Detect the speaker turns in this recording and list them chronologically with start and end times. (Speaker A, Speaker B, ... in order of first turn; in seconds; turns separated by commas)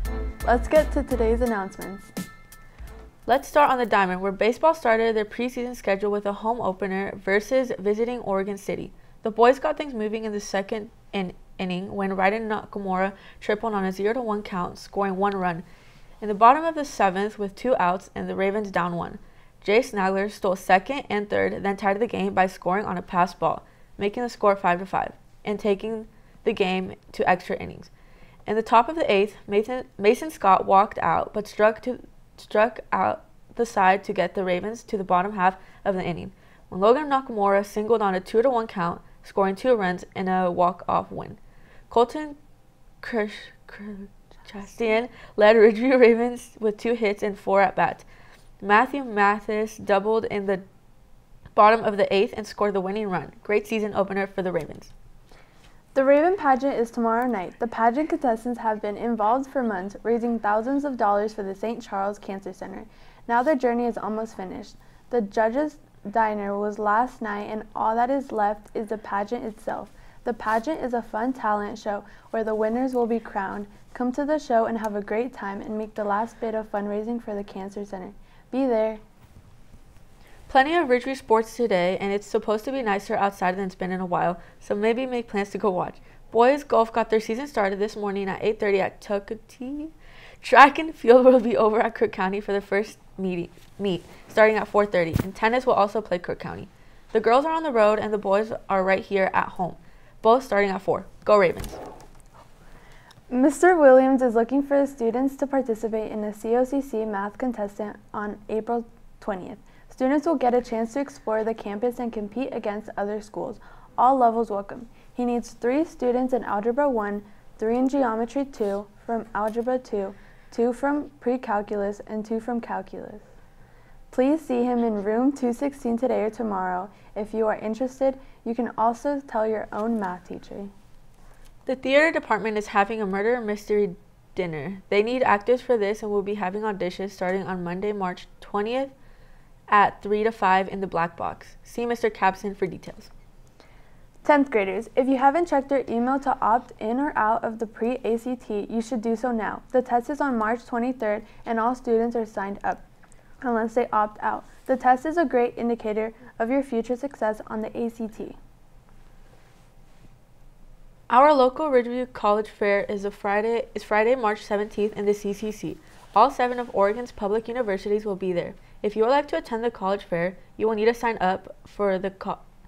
Speaker A: 0.4-2.1, Speaker B: 3.2-15.6, Speaker B: 16.2-27.9, Speaker B: 28.4-41.4, Speaker B: 41.9-42.4, Speaker B: 43.0-48.0, Speaker B: 48.6-50.6, Speaker B: 51.5-54.9, Speaker A: 55.9-79.0, Speaker B: 80.5-101.8, Speaker A: 103.3-123.3, Speaker A: 124.1-130.7, Speaker B: 131.7-138.9, Speaker B: 139.7-143.1, Speaker A: 144.2-152.8, Speaker A: 153.4-158.4, Speaker B: 161.1-172.4